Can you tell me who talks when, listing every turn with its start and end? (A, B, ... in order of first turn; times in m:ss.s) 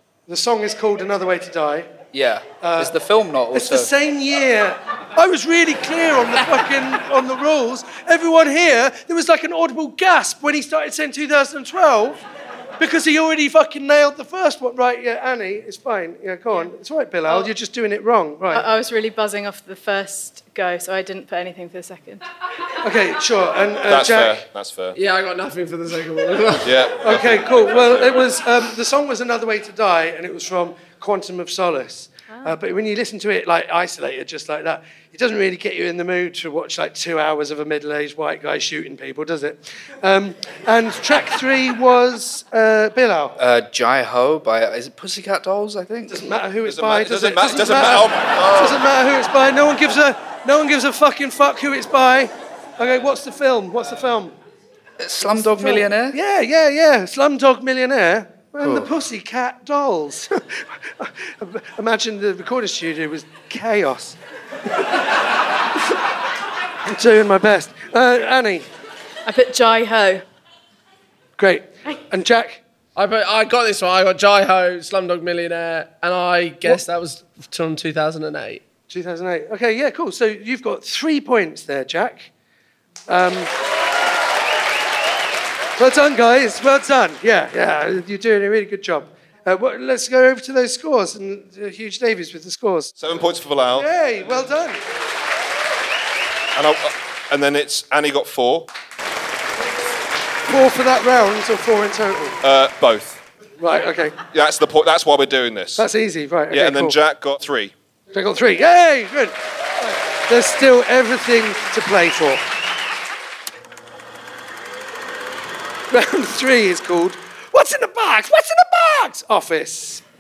0:00.3-0:01.9 A
0:02.1-0:03.9 B
0:02.6-0:02.9 A
0:03.5-0:12.2 A
0:12.8-0:18.7 A
0:18.5-0:22.2 C
0:22.8-0:24.4 A
0:23.9-0:25.0 D
0:25.0-0:26.9 E
0:26.6-0:28.2 D
0:27.0-0:43.4 A
0:32.3-0:32.6 C
0:43.4-0:46.2 B
0:46.1-0:54.4 A
0:46.6-0:48.8 D
0:55.0-0:56.2 B
0:55.3-1:04.2 A
0:58.6-0:58.9 B
1:06.9-1:08.7 A
1:09.3-1:10.2 C
1:11.4-1:12.6 A
1:13.0-1:18.6 E
1:18.9-1:22.3 A
1:23.1-1:23.5 A
1:25.8-1:32.9 A
1:33.0-1:33.9 D
1:33.7-1:34.8 A
1:36.6-1:38.7 D
1:40.5-1:42.4 A
1:42.4-1:43.2 D
1:43.6-1:44.2 A
1:44.3-1:45.9 D
1:45.8-1:47.0 A
1:46.5-1:47.7 D
1:48.1-1:52.4 A
1:55.9-2:00.0 A